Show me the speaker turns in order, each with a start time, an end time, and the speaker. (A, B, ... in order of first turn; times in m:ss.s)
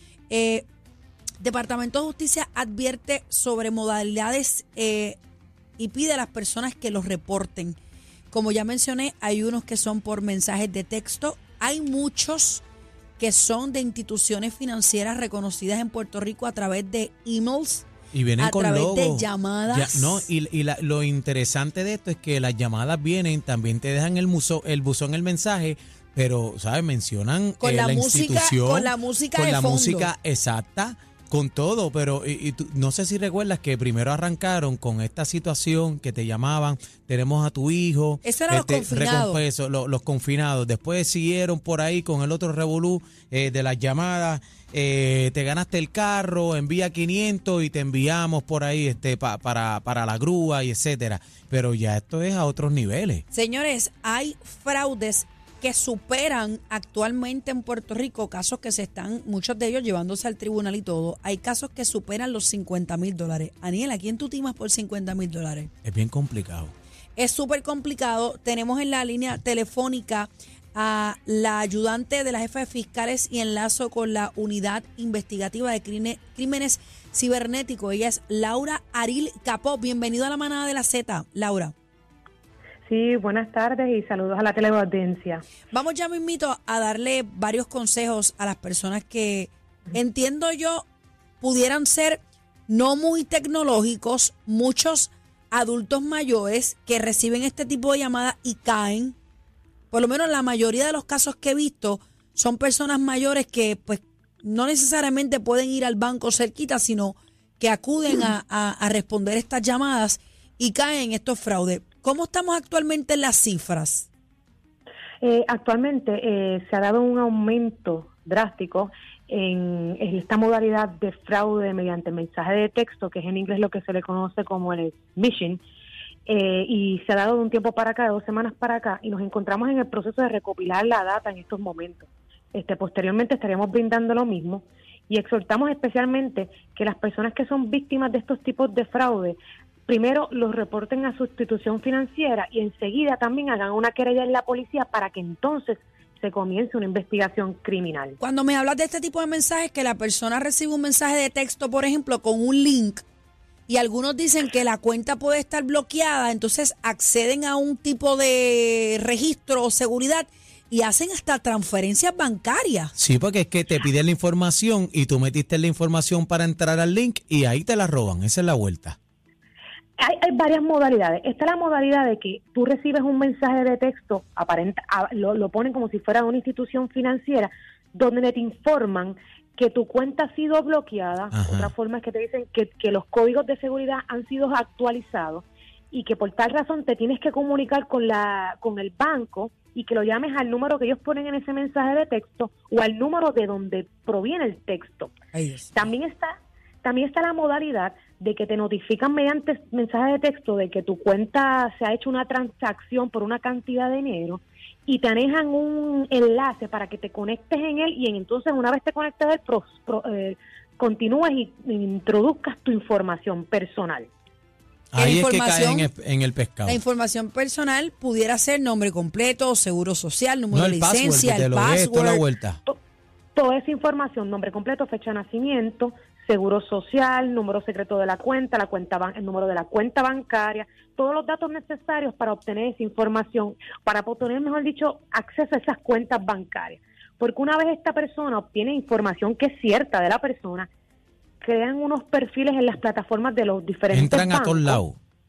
0:00.3-0:00.7 A
0:01.4-0:05.2 A
0:05.8-0:07.8 A
0:08.3-0:12.6 A
0:13.2-0:17.9 A
0:18.1-0:53.2 B
0:18.4-0:20.3 A
0:27.6-0:30.1 A
0:38.2-0:39.4 A
0:53.3-1:05.7 A
1:05.8-1:06.7 B
1:07.2-1:21.7 A
1:22.8-1:25.4 C
1:25.7-1:30.8 A
1:31.4-1:39.2 A
1:39.9-1:54.1 A
1:55.2-2:05.6 C
2:06.2-2:28.2 C
2:28.2-2:33.0 A
2:33.7-2:42.9 A
2:43.0-2:49.0 B
2:50.0-3:15.1 C
3:01.3-3:01.7 B
3:15.3-3:15.9 A
3:15.7-3:34.1 C
3:34.9-3:36.8 B
3:35.0-3:35.9 A
3:36.6-3:42.2 A
3:40.5-3:42.6 B
3:43.3-4:00.7 C
4:01.4-4:04.8 C
4:03.9-4:05.0 B